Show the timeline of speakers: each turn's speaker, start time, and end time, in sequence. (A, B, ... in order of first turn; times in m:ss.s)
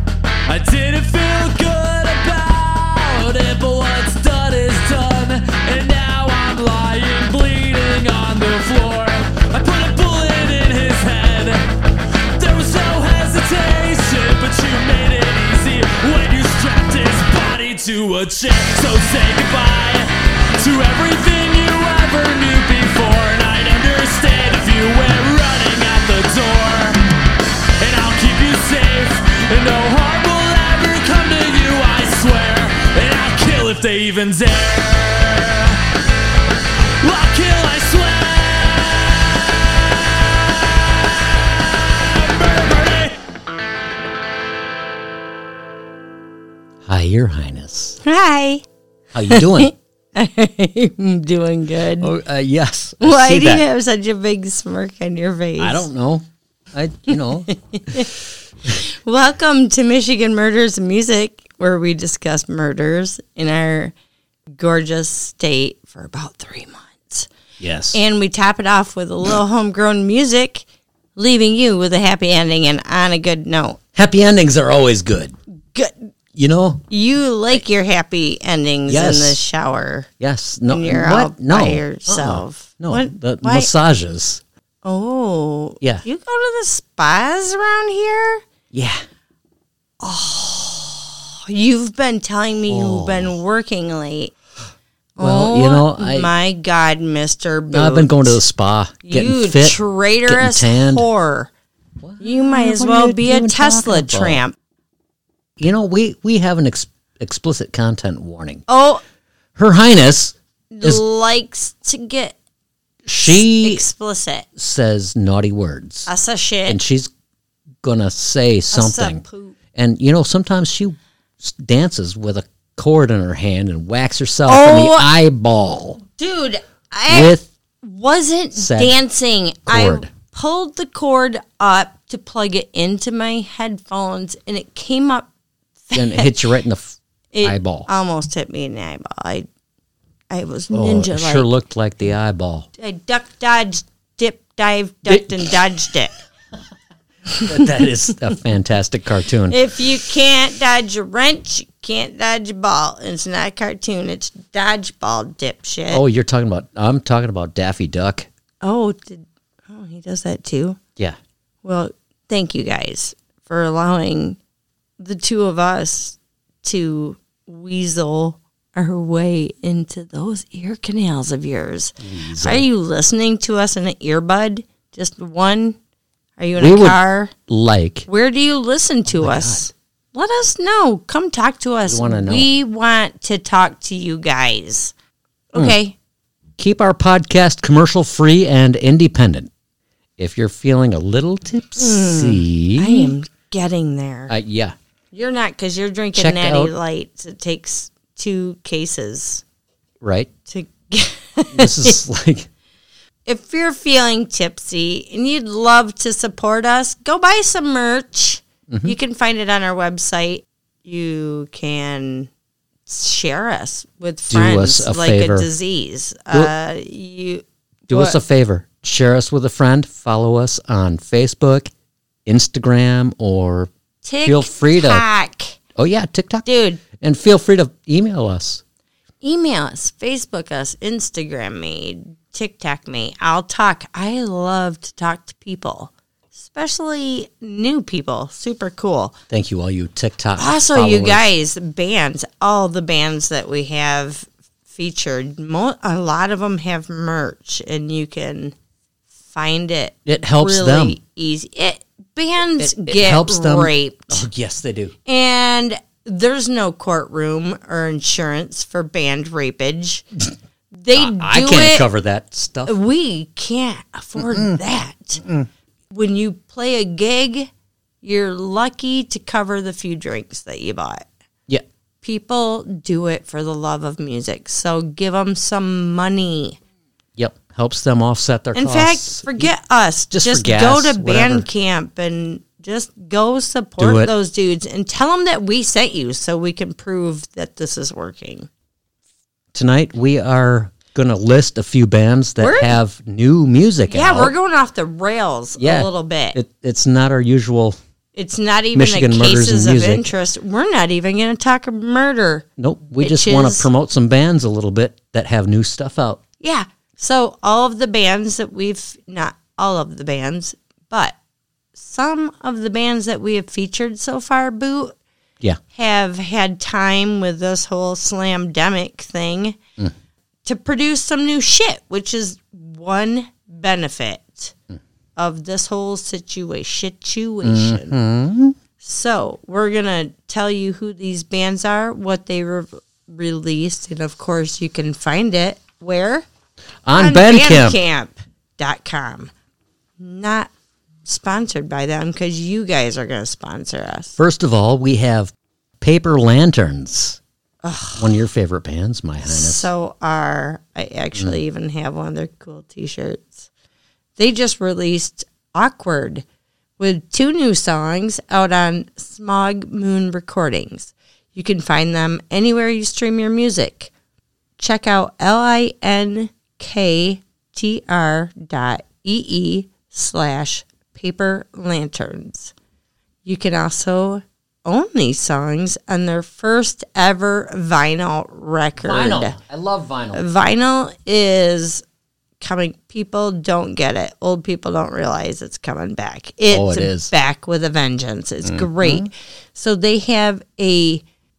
0:00.5-0:11.6 A
0:12.4-0:27.0 A
0:27.8-0:35.8 A
0:37.0-0:39.2 A
0:41.8-0:43.2 A
0:46.8-0:48.0 B
0:48.0-0:48.6 C
0:49.1-0:49.7 B
0:49.3-0:52.1 C
0:52.0-0:53.6 B
0:53.0-0:55.9 C
0:55.6-0:57.5 B
0:57.5-0:58.1 C
0:58.7-1:03.9 C
1:04.5-1:07.3 C
1:07.6-1:08.0 B
1:07.9-1:13.8 C
1:14.0-1:15.4 B
1:15.7-1:16.1 C
1:16.4-1:16.8 B
1:16.9-1:20.1 C
1:18.9-1:19.4 B
1:20.2-1:24.4 B
1:20.7-1:23.7 C
1:24.8-1:28.4 C
1:28.7-1:29.0 B
1:30.0-1:34.3 C
1:32.7-1:33.3 B
1:35.2-1:38.4 C
1:35.2-1:36.3 B
1:37.7-1:41.0 B
1:39.0-1:41.5 C
1:42.0-1:44.4 B
1:42.2-1:44.5 C
1:45.6-1:48.6 B
1:48.7-1:49.0 C
1:49.6-1:51.0 B
1:50.7-1:52.4 C
1:53.0-1:53.8 B
1:53.2-1:54.5 C
1:54.6-1:56.1 B
1:56.0-1:56.8 C
1:56.7-1:57.1 B
1:57.8-1:59.2 B
1:58.7-1:59.6 C
1:59.7-2:06.0 B
2:04.5-2:05.1 C
2:06.2-2:15.3 C
2:07.1-2:07.5 B
2:08.5-2:09.0 B
2:09.7-2:10.1 B
2:15.8-2:16.5 C
2:15.9-2:17.9 B
2:17.3-2:19.5 C
2:20.3-2:21.5 C
2:20.7-2:22.7 B
2:22.8-2:26.1 C
2:25.0-2:25.5 B
2:27.4-2:27.8 C
2:27.4-2:29.6 B
2:29.5-2:36.0 C
2:35.9-2:38.3 B
2:38.6-2:40.8 C
2:41.6-2:44.4 C
2:45.0-2:55.8 C
2:52.0-2:52.6 B
2:56.4-2:57.3 C
2:56.6-2:58.1 B
2:58.1-3:04.9 C
2:59.1-2:59.7 B
3:01.8-3:02.5 B
3:05.5-3:06.0 C
3:06.6-3:09.5 B
3:10.2-3:13.2 B
3:11.8-3:14.3 C
3:14.3-3:14.7 B
3:15.1-3:19.4 C
3:16.2-3:16.7 B
3:20.0-3:20.3 B
3:20.4-3:22.0 C
3:21.5-3:22.5 B
3:23.2-3:32.3 C
3:28.7-3:29.0 B
3:32.9-3:38.2 C
3:34.3-3:35.5 B
3:37.9-3:41.7 B
3:42.2-3:43.7 B
3:44.0-3:45.6 C
3:44.2-3:45.0 B
3:45.7-3:46.4 B
3:46.4-3:46.8 C
3:47.0-3:48.6 B
3:49.2-3:59.1 C
3:59.3-4:01.3 B
4:00.4-4:08.5 C
4:09.2-4:14.2 C
4:10.0-4:11.0 B
4:12.6-4:14.9 B
4:15.0-4:20.0 C
4:20.7-4:21.9 C
4:20.9-4:22.7 B
4:22.7-4:25.2 C
4:24.2-4:24.6 B
4:25.2-4:25.5 B
4:25.9-4:27.5 C
4:28.0-4:31.0 C
4:32.0-4:36.6 C
4:37.2-4:39.5 B
4:38.5-4:48.5 C
4:40.1-4:41.5 B
4:43.8-4:44.1 B
4:49.5-4:54.3 B
4:52.4-4:52.8 C
4:53.9-4:56.4 C
4:55.6-4:57.8 B
4:58.1-5:02.4 C
4:58.7-5:00.1 B
5:02.6-5:06.2 B
5:03.0-5:03.7 C
5:06.4-5:11.2 C
5:11.7-5:14.9 C
5:15.7-5:19.6 C
5:20.4-5:24.5 C
5:25.2-5:28.0 C
5:27.4-5:28.6 B
5:28.8-5:36.2 C
5:36.8-5:37.8 B
5:36.9-5:39.3 C
5:40.0-5:40.5 C
5:41.0-5:44.2 C
5:44.2-5:47.2 B
5:47.6-5:48.2 C
5:48.0-5:49.7 B
5:49.2-5:53.5 C
5:54.2-5:56.2 C
5:56.8-6:03.9 C
6:04.6-6:12.5 C
6:13.2-6:19.4 C
6:18.8-6:20.2 B
6:20.1-6:21.8 C
6:22.4-6:31.0 C
6:26.5-6:27.1 B
6:28.4-6:29.1 B